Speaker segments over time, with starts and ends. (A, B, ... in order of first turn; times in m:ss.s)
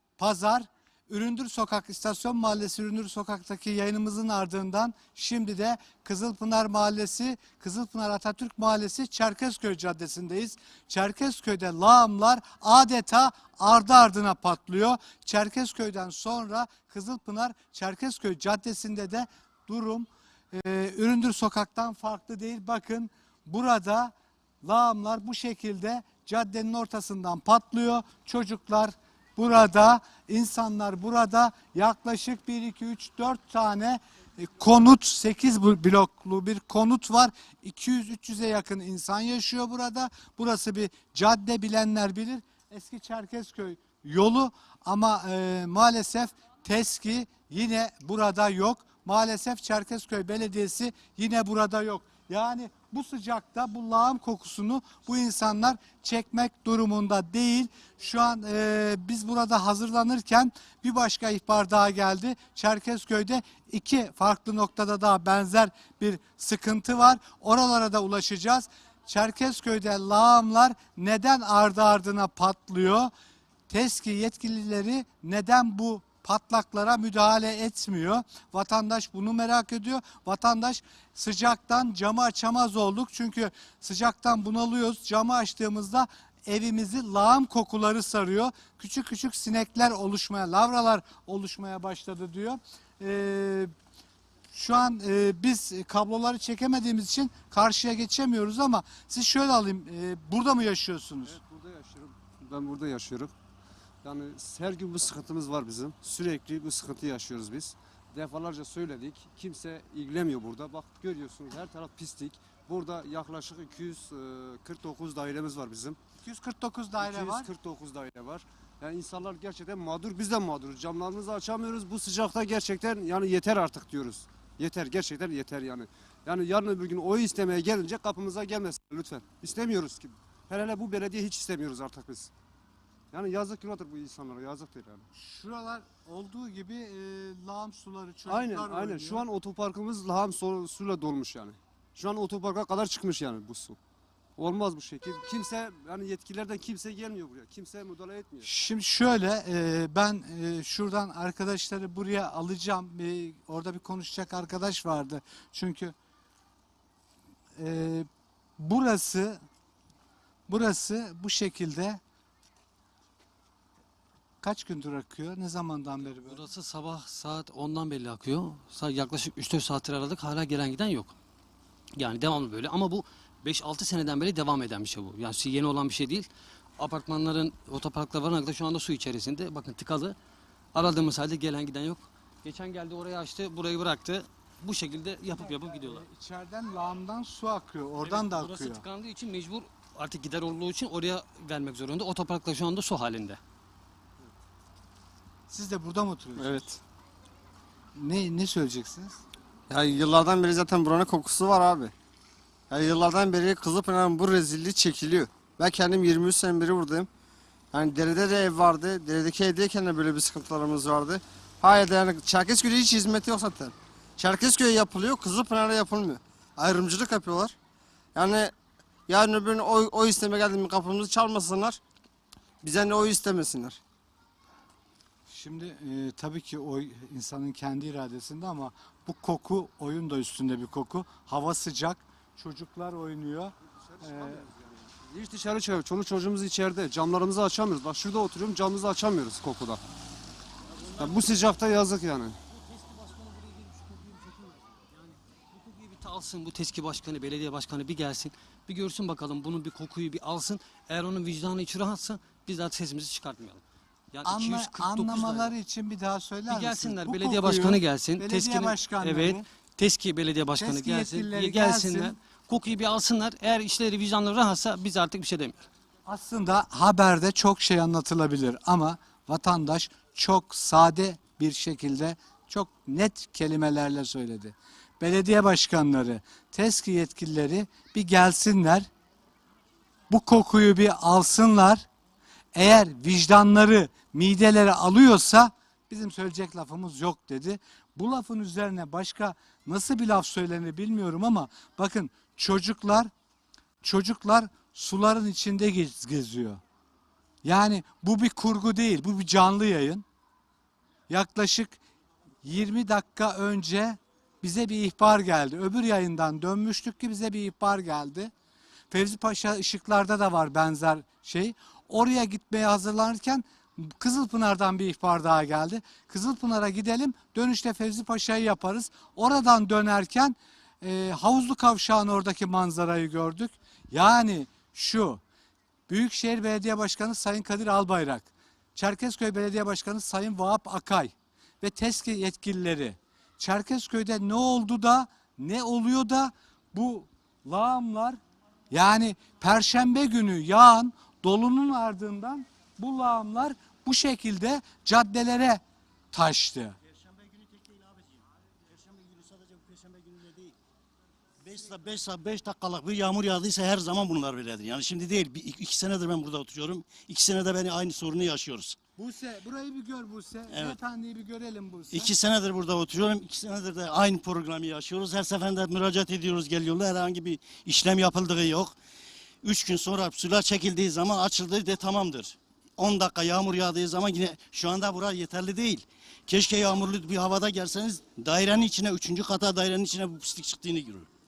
0:00.2-1:13.1 A
1:13.7-1:33.7 A
1:34.5-1:41.4 A
1:41.3-1:43.3 B
1:44.0-1:56.0 B
1:56.2-1:57.5 A
1:57.0-2:12.3 B
2:13.1-2:15.1 B
2:15.1-2:19.2 A
2:18.3-2:23.8 B
2:24.4-2:28.5 B
2:28.4-2:36.0 A
2:37.6-2:38.1 A
2:38.6-2:39.4 A
2:40.5-2:42.0 A
2:44.4-2:46.5 A
2:46.0-2:51.2 C
2:52.0-3:00.2 C
3:00.7-3:06.0 C
3:05.4-3:08.8 A
3:08.0-3:13.4 C
3:15.5-3:16.6 A
3:16.4-3:16.8 D
3:18.0-3:19.2 A
3:19.7-3:21.9 D
3:22.7-3:27.1 D
3:27.7-3:37.6 D
3:38.2-3:38.5 D
3:39.1-3:41.8 D
3:42.6-3:43.8 D
3:45.3-3:54.4 A
3:53.9-3:59.8 B
4:01.0-4:02.4 B
4:05.0-4:15.5 C
4:14.2-4:19.4 A
4:16.5-4:25.7 C
4:20.6-4:22.2 A
4:26.0-4:38.9 A
4:40.1-4:41.9 A
4:42.6-4:53.1 A
4:53.8-4:56.6 A
4:57.4-5:00.0 A
5:01.1-5:01.8 A
5:02.4-5:08.3 A
5:08.9-5:25.2 A
5:25.9-5:38.2 A
5:38.7-5:46.8 A
5:46.9-5:50.6 E
5:51.4-5:58.8 E
5:59.0-6:02.1 A
6:00.5-6:00.8 E
6:01.9-6:08.8 E
6:09.4-6:21.1 E